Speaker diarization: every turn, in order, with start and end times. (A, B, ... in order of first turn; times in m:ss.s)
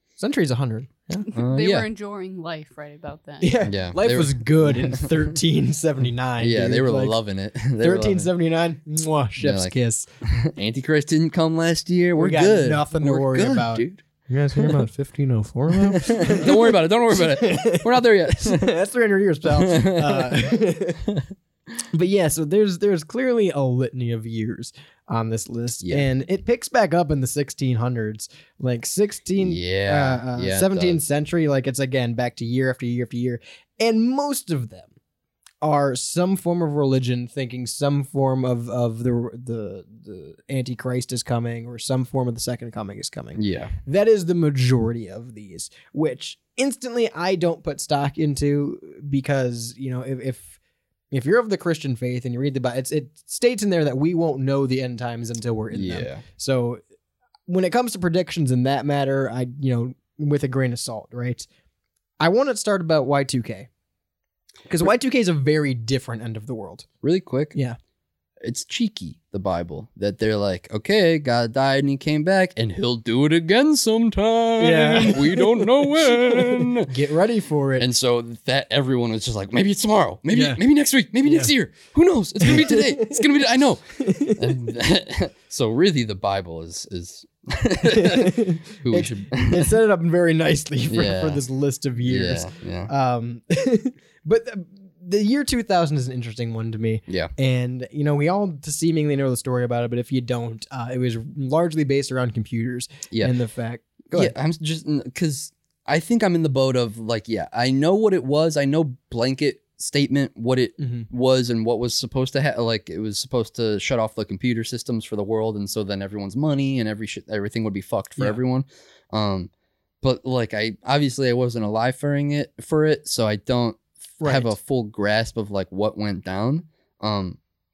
0:00.2-0:01.2 A
0:01.3-0:03.6 B
0:01.3-0:01.9 C
0:03.4-0:07.2 A
0:03.6-0:05.3 C
0:06.4-0:08.3 C
0:07.8-0:10.1 A
0:09.4-0:14.0 C
0:12.2-0:21.0 A
0:14.5-0:14.8 C
0:15.7-0:18.7 C
0:19.5-0:20.4 C
0:21.9-0:34.9 A
0:25.8-0:26.1 C
0:29.4-0:31.0 C
0:35.6-0:50.6 A
0:43.3-0:43.7 C
0:51.1-0:56.8 A
0:55.7-0:56.2 C
0:57.5-1:01.5 A
1:02.2-1:03.7 A
1:04.7-1:06.8 A
1:07.0-1:07.6 C
1:08.4-1:16.9 C
1:14.6-1:17.9 A
1:17.8-1:29.8 C
1:20.3-1:20.6 A
1:22.4-1:23.2 A
1:24.0-1:24.4 A
1:27.8-1:44.3 A
1:30.9-1:31.4 C
1:32.0-1:32.9 C
1:37.1-1:37.3 C
1:43.1-1:43.4 C
1:44.1-2:07.4 C
1:50.8-1:51.1 A
2:04.2-2:04.6 A